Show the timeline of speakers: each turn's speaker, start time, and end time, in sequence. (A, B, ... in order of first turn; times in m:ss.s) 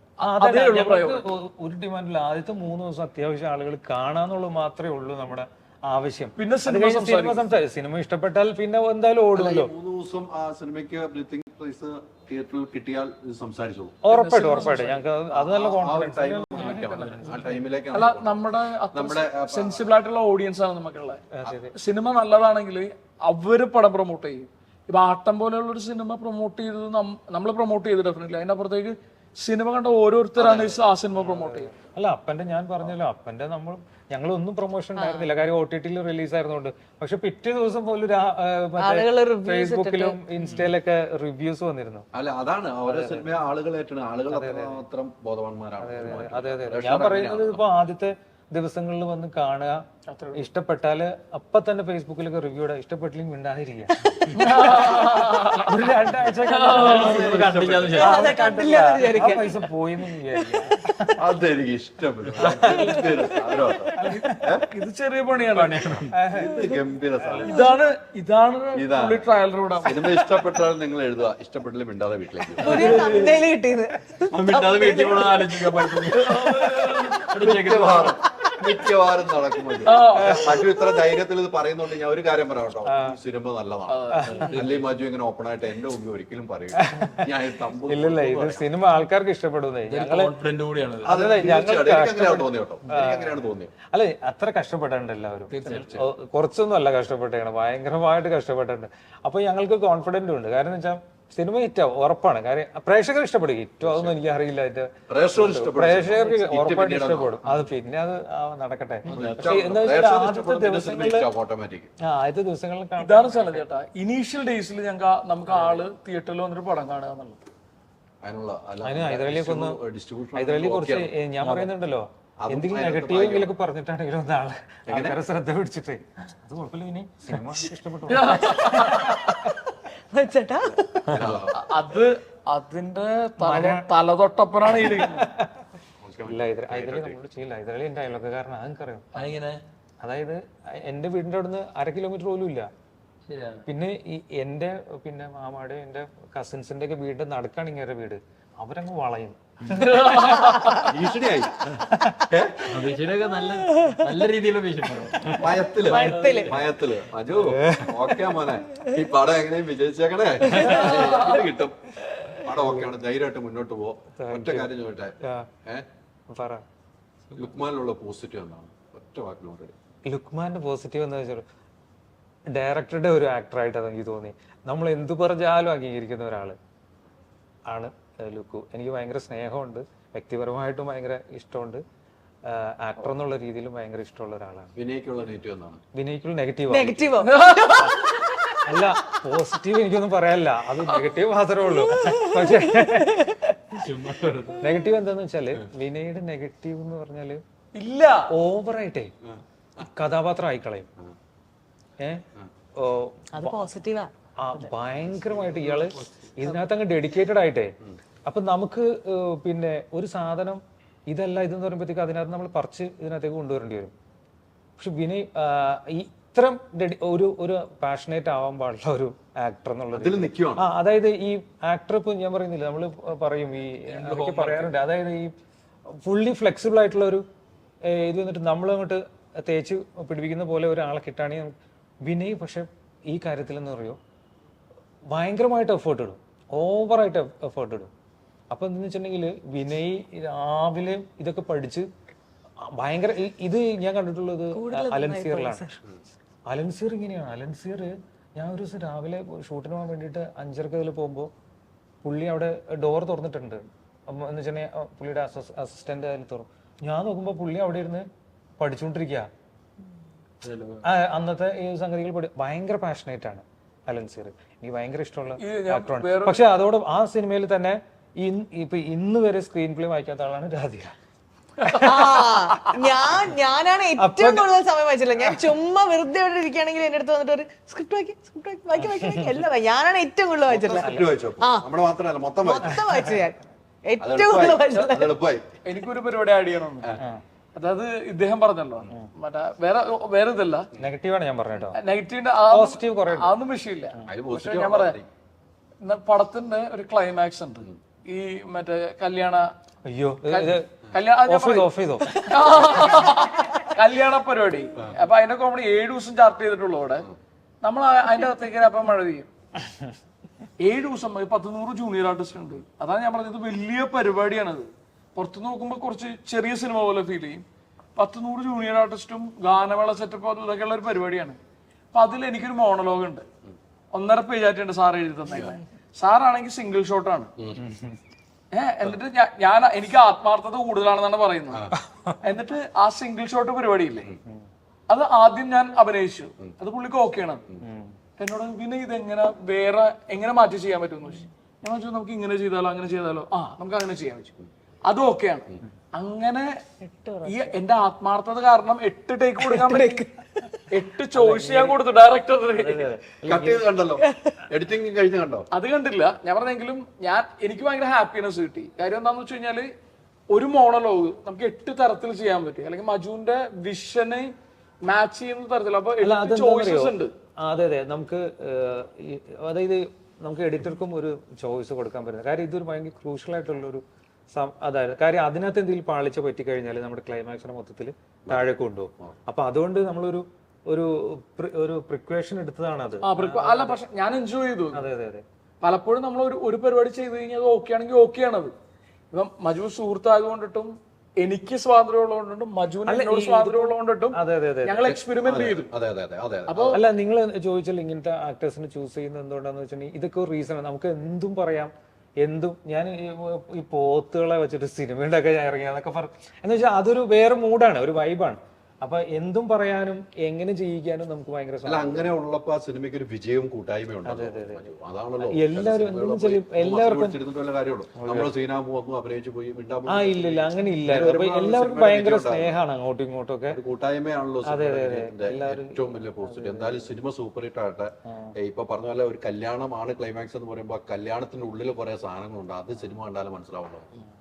0:00.2-0:01.3 A
0:00.2-0:09.7 B
0:06.4-0:07.4 A
0:09.3-0:14.0 C
0:14.0-0:17.6 B
0:14.1-0:15.0 A
0:15.3-0:18.4 C
0:16.6-0:21.2 A
0:18.9-0:19.8 C
0:21.3-0:21.7 B
0:21.7-0:31.7 A
0:30.4-0:30.8 C
0:31.2-0:42.1 B
0:35.0-0:35.3 D
0:38.8-0:40.2 D
0:42.1-0:47.6 C
0:42.9-0:43.5 B
0:44.3-0:44.8 B
0:45.8-0:49.8 B
0:50.1-0:50.4 A
0:50.3-1:01.1 B
0:54.3-0:55.9 A
0:56.4-0:57.1 A
0:56.7-0:58.4 C
0:56.8-0:58.2 E
0:57.9-0:59.6 D
1:01.2-1:04.7 C
1:02.4-1:02.9 B
1:02.6-1:04.0 D
1:04.0-1:04.4 B
1:04.0-1:05.9 A
1:05.4-1:06.2 E
1:06.1-1:06.6 B
1:06.3-1:07.6 C
1:07.4-1:10.2 A
1:08.8-1:09.2 C
1:09.8-1:13.3 C
1:12.6-1:16.0 D
1:12.7-1:13.4 E
1:14.3-1:18.1 E
1:16.1-1:17.3 A
1:17.4-1:28.7 C
1:18.1-1:18.5 D
1:19.9-1:20.6 A
1:22.9-1:23.2 B
1:23.9-1:24.9 E
1:24.1-1:24.6 B
1:26.8-1:27.3 B
1:27.9-1:30.3 B
1:29.8-1:31.2 E
1:31.1-1:33.7 C
1:31.1-1:51.3 B
1:35.5-1:36.0 E
1:35.7-1:36.0 C
1:43.8-1:44.2 C
1:45.1-1:47.5 C
1:49.1-1:51.9 C
1:52.0-1:53.7 B
1:53.0-1:57.4 A
1:58.2-2:01.1 C
1:58.8-1:59.8 B
2:00.3-2:09.4 B
2:02.4-2:03.5 C
2:04.9-2:05.2 C
2:08.1-2:09.2 A
2:08.2-2:09.2 D
2:10.1-2:11.2 D
2:11.1-2:11.6 C
2:11.5-2:15.3 A
2:13.4-2:13.9 B
2:14.8-2:15.6 B
2:16.0-2:17.2 C
2:16.3-2:19.1 B
2:19.1-2:19.6 E
2:20.0-2:22.7 B
2:23.3-2:23.6 E
2:23.7-2:30.0 B
2:30.0-2:30.9 D
2:30.7-2:31.7 C
2:32.3-2:32.7 C
2:32.7-2:35.4 E
2:33.5-2:34.2 D
2:35.4-2:45.9 C
2:35.7-2:36.6 D
2:36.1-2:36.6 E
2:37.3-2:38.2 B
2:40.5-2:41.0 D
2:40.9-2:41.4 A
2:42.5-2:42.9 B
2:44.2-2:44.7 B
2:45.2-2:45.5 B
2:46.3-2:46.6 B
2:47.3-2:49.8 C
2:50.1-2:51.4 B
2:52.5-2:56.6 B
2:57.7-3:01.8 B
3:02.5-3:04.7 B
3:04.8-3:05.8 C
3:05.9-3:07.1 B
3:06.7-3:08.5 D
3:07.2-3:08.3 A
3:08.7-3:13.3 B
3:12.0-3:13.5 D
3:13.8-3:14.6 E
3:14.6-3:17.4 B
3:17.8-3:18.3 A
3:18.3-3:19.1 B
3:19.3-3:19.8 C
3:19.8-3:20.9 B
3:22.0-3:22.2 B
3:22.8-3:23.7 B
3:23.3-3:24.7 D
3:24.4-3:27.7 B
3:25.7-3:26.3 E
3:28.3-3:33.9 B
3:34.8-3:45.3 B
3:39.9-3:40.7 C
3:43.8-3:44.8 E
3:46.0-3:47.2 B
3:47.9-3:51.5 B
3:52.0-3:54.0 B
3:55.1-3:57.9 B
3:58.5-4:01.9 B
4:02.8-4:05.6 B
4:04.5-4:05.8 D
4:06.5-4:11.3 B
4:12.0-4:18.1 B
4:18.6-4:19.3 B
4:20.4-4:20.9 E
4:20.8-4:30.9 B
4:25.4-4:26.4 A
4:31.6-4:32.1 B
4:31.6-4:32.8 A
4:31.7-4:41.7 D
4:34.0-4:34.5 B
4:38.8-4:39.5 B
4:40.5-4:42.8 C
4:40.7-4:41.2 B
4:42.4-4:45.2 D
4:42.7-4:43.2 B
4:44.0-4:45.5 C
4:45.6-4:46.9 A
4:47.6-4:50.7 A
4:50.8-4:51.8 B
4:51.8-4:55.0 A
4:52.5-4:53.4 B
4:54.1-4:55.1 C
4:55.8-4:59.5 A
4:59.8-5:00.7 B
5:00.3-5:07.1 A
5:01.2-5:02.7 B
5:07.6-5:09.3 A
5:10.6-5:17.4 A
5:18.0-5:21.4 A
5:21.9-5:23.3 A
5:23.9-5:27.3 A
5:27.6-5:28.0 B
5:28.5-5:31.6 A
5:32.2-5:34.1 A
5:34.9-5:37.4 A
5:37.6-5:38.0 B
5:38.2-5:44.4 A
5:44.9-5:46.5 A
5:46.8-5:47.6 D
5:47.2-5:50.1 A
5:49.6-5:50.6 D
5:50.7-5:52.9 A
5:51.1-5:51.8 B
5:52.5-5:53.7 B
5:53.3-5:55.5 C
5:54.0-5:54.4 D
5:55.5-5:59.7 A
6:00.3-6:07.1 A
6:06.0-6:23.8 B
6:23.0-6:24.9 A
6:24.7-6:25.2 B
6:25.6-6:28.5 A
6:29.1-6:35.7 A
6:32.9-6:34.9 B
6:34.9-6:36.8 C
6:36.5-6:36.8 A
6:36.7-6:52.1 B
6:51.6-7:02.6 C
6:54.0-6:57.2 B
6:58.0-6:58.3 B
6:59.9-7:03.6 B
7:03.5-7:13.9 C
7:04.4-7:06.9 B
7:08.1-7:08.3 B